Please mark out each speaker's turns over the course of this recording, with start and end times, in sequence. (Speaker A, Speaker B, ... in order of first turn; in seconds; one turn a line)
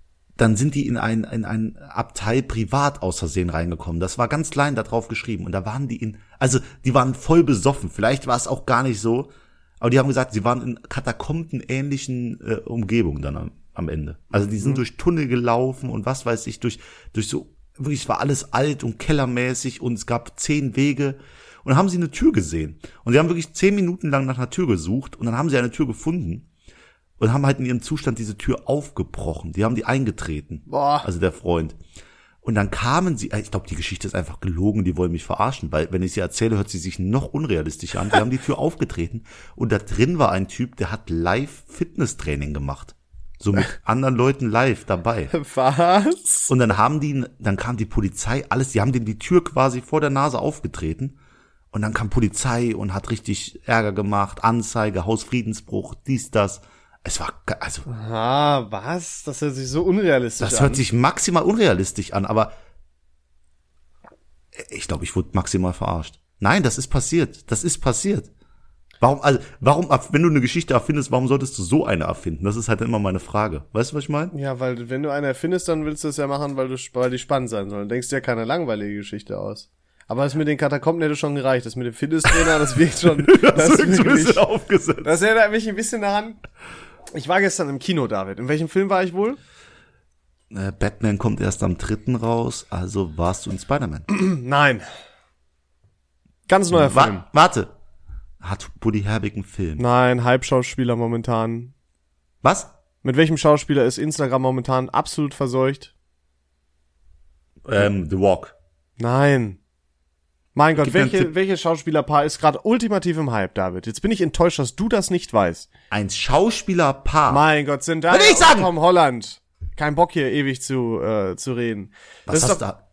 Speaker A: 0.4-26.5
Speaker A: 27.2-31.8
Speaker B: 30.7-31.1
Speaker A: 32.4-45.3
Speaker B: 45.3-46.5
Speaker A: 46.5-51.2
Speaker A: 51.7-57.9
Speaker B: 57.9-60.8
Speaker A: 60.4-62.5
Speaker A: 64.5-68.3
Speaker A: 69.0-74.3
Speaker B: 74.3-84.4
Speaker A: 83.0-85.2
Speaker B: 85.0-86.4
Speaker B: 87.1-89.4
Speaker A: 90.5-94.1
Speaker B: 94.1-94.9
Speaker B: 96.5-97.2
Speaker A: 96.7-97.7
Speaker A: 98.4-99.8
Speaker B: 99.8-101.7
Speaker A: 102.4-102.7
Speaker B: 103.0-105.9
Speaker A: 107.6-108.5
Speaker B: 109.0-109.6
Speaker B: 110.5-115.7
Speaker A: 110.8-111.3
Speaker A: 115.9-117.4
Speaker B: 117.3-122.6
Speaker A: 118.1-118.7
Speaker A: 122.3-122.8